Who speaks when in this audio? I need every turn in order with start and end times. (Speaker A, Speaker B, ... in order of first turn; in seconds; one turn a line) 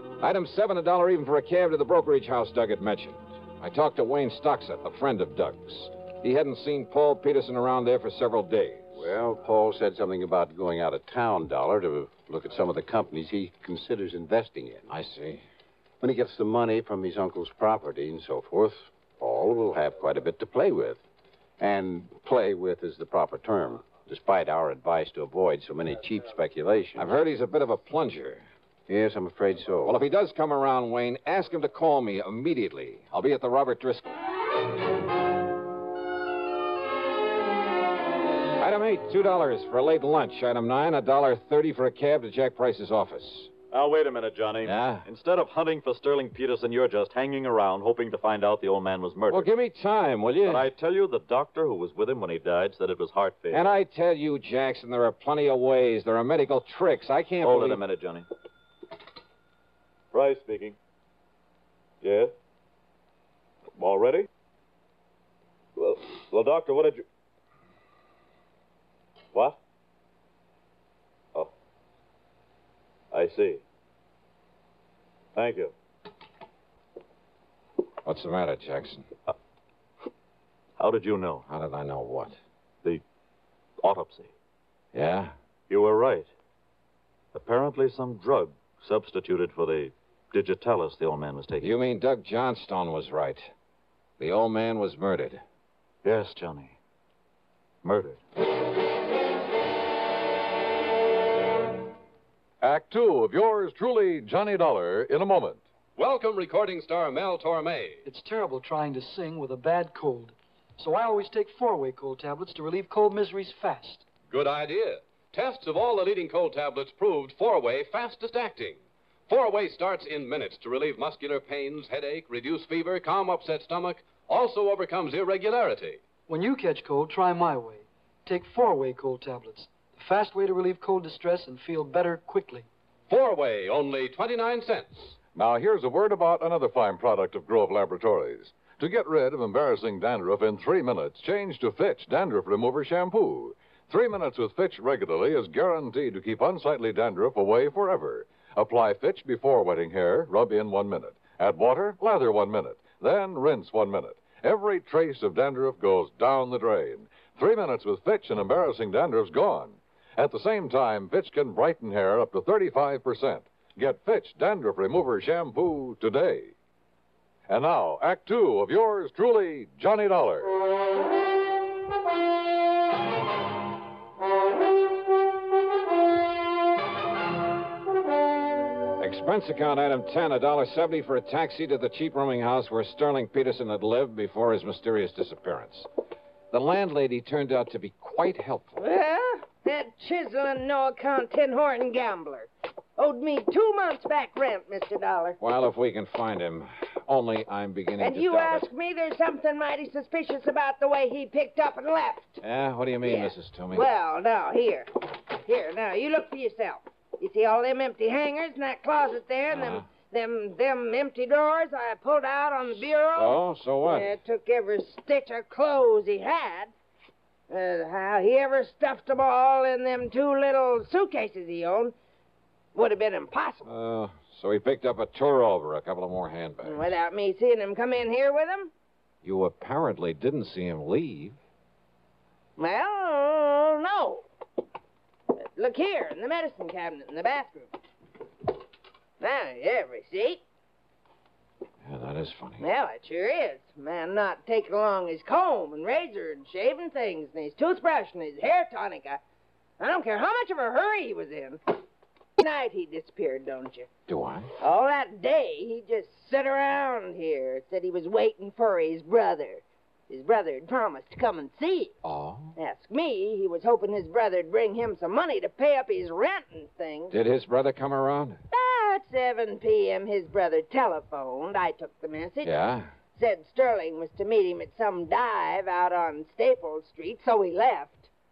Speaker A: 0.2-9.1
Speaker B: 9.0-14.8
Speaker A: 14.9-15.4
Speaker B: 16.0-21.0
Speaker B: 21.6-27.1
Speaker A: 27.0-28.4
Speaker B: 28.9-30.0
Speaker A: 29.9-34.1
Speaker A: 38.6-43.5
Speaker C: 43.7-49.5
Speaker A: 44.6-45.1
Speaker A: 49.3-50.7
Speaker C: 50.5-53.7
Speaker A: 53.5-57.8
Speaker C: 57.4-58.3
Speaker C: 60.1-60.8
Speaker C: 62.0-62.3
Speaker C: 63.8-64.3
Speaker C: 65.8-67.0
Speaker C: 69.3-69.6
Speaker C: 73.1-73.6
Speaker C: 75.3-75.7
Speaker A: 78.0-79.1
Speaker C: 80.8-81.5
Speaker A: 81.5-82.4
Speaker C: 83.8-84.3
Speaker A: 84.9-85.3
Speaker C: 85.7-86.3
Speaker C: 87.3-91.7
Speaker A: 91.6-93.5
Speaker A: 94.2-95.4
Speaker C: 96.0-96.8
Speaker C: 97.8-98.2
Speaker D: 102.6-105.6
Speaker E: 106.0-108.0
Speaker F: 108.0-114.1
Speaker E: 114.3-126.0
Speaker F: 126.3-132.7
Speaker E: 133.1-135.2
Speaker D: 135.3-166.5
Speaker D: 167.5-170.5
Speaker A: 179.0-185.9
Speaker A: 186.5-188.8
Speaker G: 188.8-195.4
Speaker A: 195.4-198.7
Speaker G: 198.0-202.4
Speaker A: 202.4-203.9
Speaker G: 203.0-216.7
Speaker A: 209.5-209.8
Speaker A: 213.2-214.1
Speaker G: 217.5-221.9
Speaker G: 222.8-223.7
Speaker A: 223.7-226.9
Speaker G: 226.6-228.7
Speaker A: 229.2-231.4
Speaker G: 232.6-234.2
Speaker G: 235.4-237.8
Speaker G: 239.2-240.4
Speaker A: 241.8-242.6
Speaker G: 242.6-249.2
Speaker G: 249.8-251.6
Speaker G: 252.4-253.9
Speaker A: 254.1-254.5
Speaker G: 254.6-261.9
Speaker A: 262.0-262.6
Speaker G: 262.6-267.1
Speaker A: 267.1-268.4
Speaker G: 268.5-272.6
Speaker A: 272.4-272.9
Speaker G: 273.2-278.1